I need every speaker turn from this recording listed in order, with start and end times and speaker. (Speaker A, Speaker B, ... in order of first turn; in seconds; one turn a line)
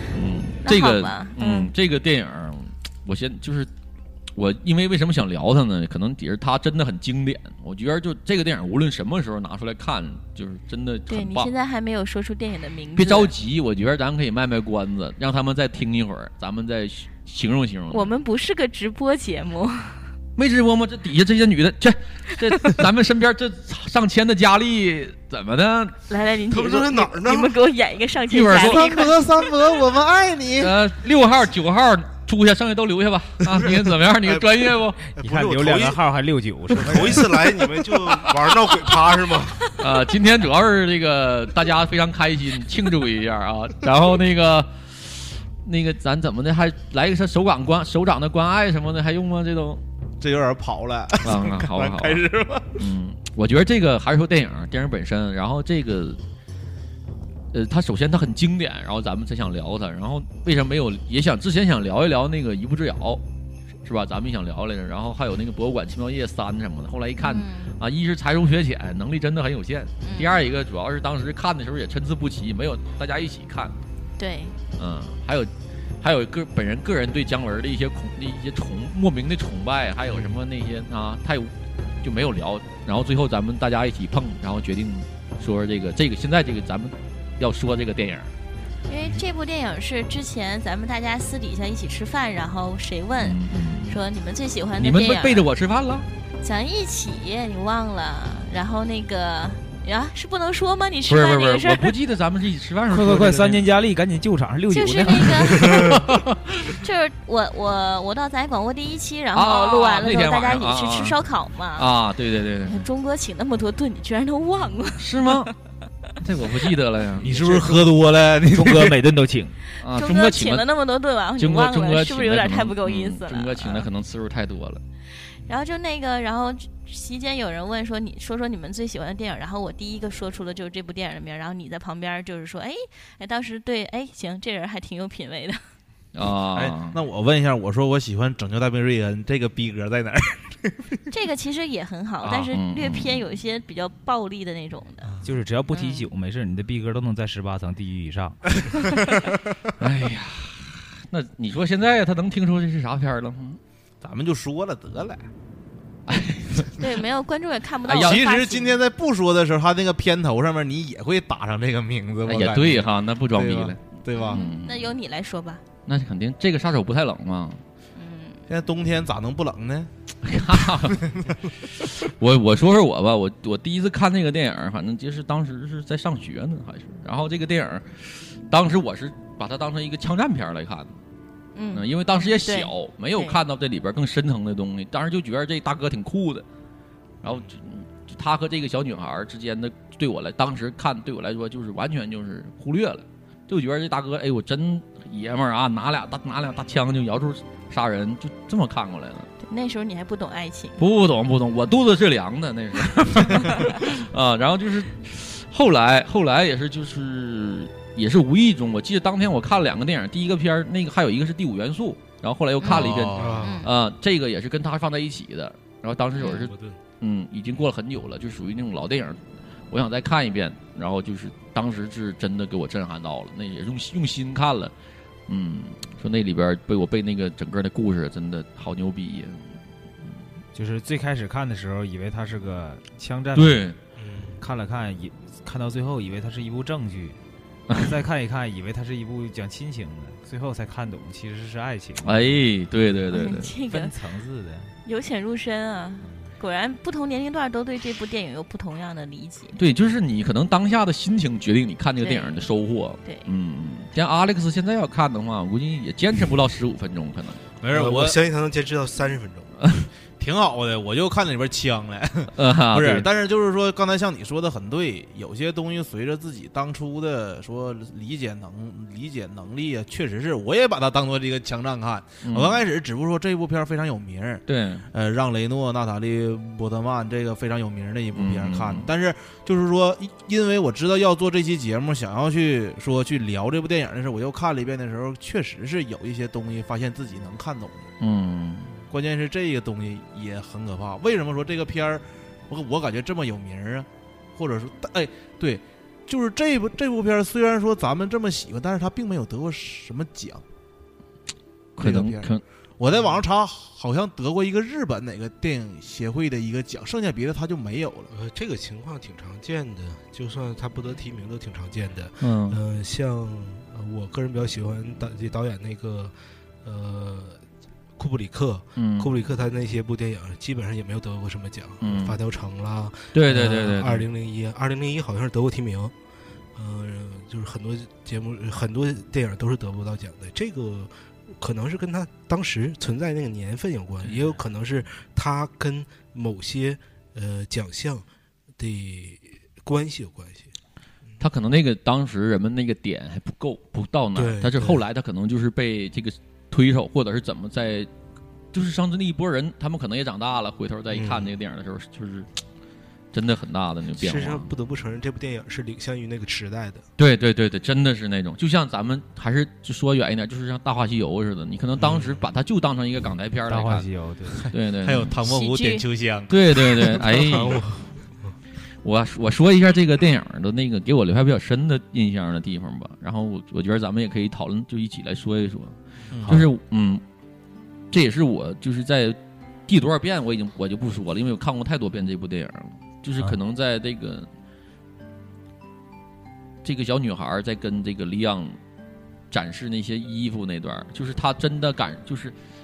Speaker A: 0.1-3.7
Speaker B: 0.6-1.7
Speaker A: 4.3-11.5
Speaker B: 11.1-13.3
Speaker A: 13.0-18.1
Speaker B: 17.9-20.1
Speaker A: 20.4-26.0
Speaker B: 26.1-29.5
Speaker C: 26.5-27.5
Speaker A: 28.3-28.9
Speaker D: 28.5-30.7
Speaker A: 30.6-35.0
Speaker C: 34.2-34.6
Speaker C: 35.1-36.0
Speaker E: 35.2-37.5
Speaker C: 36.7-39.8
Speaker A: 39.8-49.8
Speaker D: 50.2-52.9
Speaker A: 51.2-52.2
Speaker A: 52.8-56.2
Speaker A: 57.5-63.2
Speaker A: 63.8-73.8
Speaker B: 67.2-67.7
Speaker B: 70.0-70.4
Speaker B: 74.2-74.5
Speaker A: 74.8-75.5
Speaker A: 76.0-81.5
Speaker A: 82.0-88.3
Speaker B: 88.9-95.5
Speaker A: 93.2-94.0
Speaker A: 94.8-96.0
Speaker B: 96.4-101.9
Speaker A: 101.1-103.7
Speaker E: 102.9-106.0
Speaker B: 104.7-105.8
Speaker A: 105.6-106.8
Speaker B: 106.8-111.9
Speaker A: 109.3-111.2
Speaker A: 111.8-112.8
Speaker B: 112.6-115.5
Speaker A: 115.0-115.5
Speaker A: 116.2-117.3
Speaker D: 117.2-119.0
Speaker E: 117.3-117.8
Speaker E: 118.4-119.6
Speaker B: 119.8-123.9
Speaker A: 119.8-120.7
Speaker A: 121.4-124.8
Speaker B: 125.3-135.6
Speaker A: 136.1-137.0
Speaker D: 136.5-141.0
Speaker B: 141.1-145.1
Speaker A: 142.2-143.2
Speaker E: 145.2-148.4
Speaker B: 145.7-146.1
Speaker A: 149.8-153.6
Speaker D: 154.0-155.3
Speaker A: 156.1-156.8
Speaker B: 156.8-158.8
Speaker A: 157.9-158.2
Speaker D: 158.0-164.5
Speaker A: 162.2-164.8
Speaker B: 164.1-165.6
Speaker A: 165.8-167.6
Speaker B: 167.9-168.4
Speaker D: 168.5-169.9
Speaker A: 170.2-171.0
Speaker D: 170.5-171.5
Speaker A: 171.6-180.9
Speaker B: 181.5-183.4
Speaker A: 181.7-186.4
Speaker A: 187.2-199.3
Speaker B: 199.4-200.8
Speaker A: 200.8-219.2
Speaker B: 203.3-203.7
Speaker B: 212.6-213.7
Speaker D: 212.6-213.5
Speaker C: 213.1-213.7
Speaker C: 216.2-216.8
Speaker B: 216.2-216.5
Speaker A: 219.7-224.7
Speaker A: 225.3-229.4
Speaker E: 230.5-233.7
Speaker A: 233.3-233.8
Speaker C: 233.9-234.4
Speaker E: 234.4-237.2
Speaker A: 237.7-237.9
Speaker E: 237.7-242.5
Speaker A: 242.0-243.5
Speaker B: 243.1-243.9
Speaker E: 243.5-244.7
Speaker B: 244.8-249.6
Speaker A: 249.5-257.4
Speaker B: 252.0-252.4
Speaker D: 257.6-258.2
Speaker C: 257.7-259.6
Speaker D: 260.2-287.9
Speaker A: 262.3-263.1
Speaker A: 272.2-272.6
Speaker A: 274.5-274.9
Speaker A: 278.1-278.9
Speaker A: 288.0-288.8
Speaker D: 288.9-300.4
Speaker A: 301.8-302.4
Speaker D: 301.8-308.1
Speaker C: 302.9-303.2
Speaker C: 308.1-317.4
Speaker A: 312.2-312.6
Speaker C: 317.9-325.9
Speaker A: 318.8-319.1
Speaker A: 321.8-322.2
Speaker A: 323.1-324.1
Speaker C: 326.5-338.1
Speaker C: 338.6-340.5
Speaker A: 341.2-347.9
Speaker C: 344.1-344.8
Speaker A: 348.5-352.3
Speaker C: 350.9-351.3
Speaker A: 353.1-354.5
Speaker C: 354.0-356.8
Speaker A: 357.0-363.9
Speaker C: 361.8-362.2
Speaker E: 363.5-364.5
Speaker A: 364.5-365.1
Speaker D: 364.8-367.0
Speaker B: 365.2-365.9
Speaker A: 366.3-367.6
Speaker C: 367.1-368.3
Speaker A: 368.8-375.8
Speaker D: 376.1-376.4
Speaker E: 376.2-376.5
Speaker A: 376.3-377.0
Speaker A: 377.9-379.2
Speaker A: 379.7-384.3
Speaker A: 386.6-388.6
Speaker A: 389.3-392.3